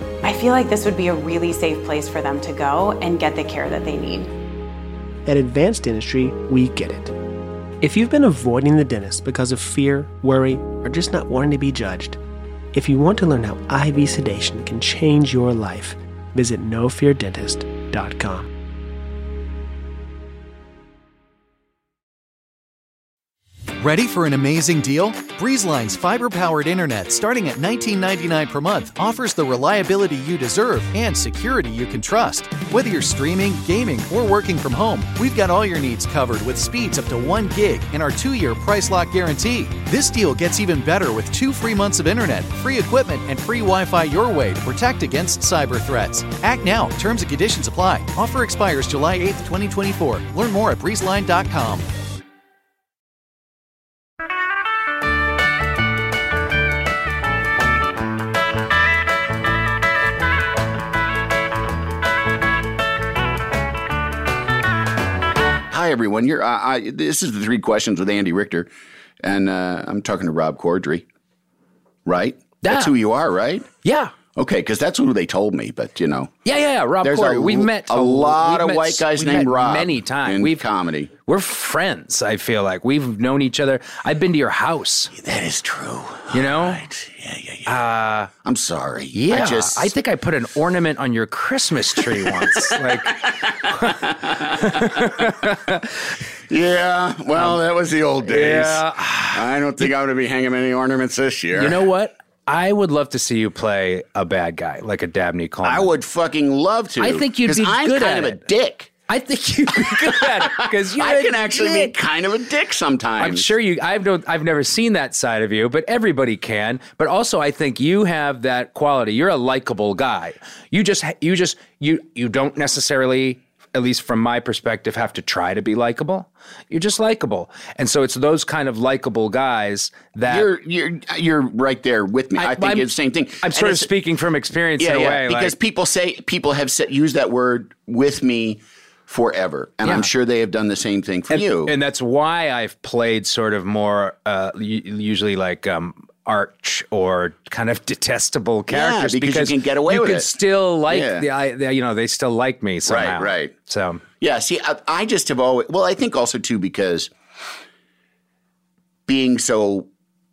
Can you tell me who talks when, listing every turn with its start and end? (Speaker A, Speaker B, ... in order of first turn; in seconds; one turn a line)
Speaker A: 0.2-4.3
Speaker B: 5.2-7.1
Speaker B: 7.8-12.2
Speaker B: 12.7-18.5
Speaker C: 23.8-51.9
Speaker D: 65.7-68.7
Speaker D: 69.2-71.0
Speaker D: 72.0-73.7
Speaker E: 72.6-72.9
Speaker E: 73.8-74.1
Speaker D: 74.3-76.3
Speaker E: 76.4-80.6
Speaker D: 77.0-81.1
Speaker E: 81.2-85.1
Speaker D: 85.1-87.7
Speaker E: 86.3-86.8
Speaker E: 87.7-88.3
Speaker D: 88.4-89.9
Speaker E: 89.1-95.9
Speaker D: 92.0-95.3
Speaker D: 96.5-101.8
Speaker E: 98.2-99.8
Speaker E: 101.5-105.9
Speaker D: 105.6-108.9
Speaker E: 107.0-108.4
Speaker E: 109.1-111.9
Speaker D: 109.8-113.5
Speaker E: 113.2-130.5
Speaker D: 130.3-133.9
Speaker E: 132.3-132.9
Speaker E: 133.4-135.5
Speaker D: 134.8-141.7
Speaker E: 141.3-154.0
Speaker D: 148.7-151.2
Speaker D: 152.8-153.5
Speaker D: 154.2-157.1
Speaker D: 159.1-159.9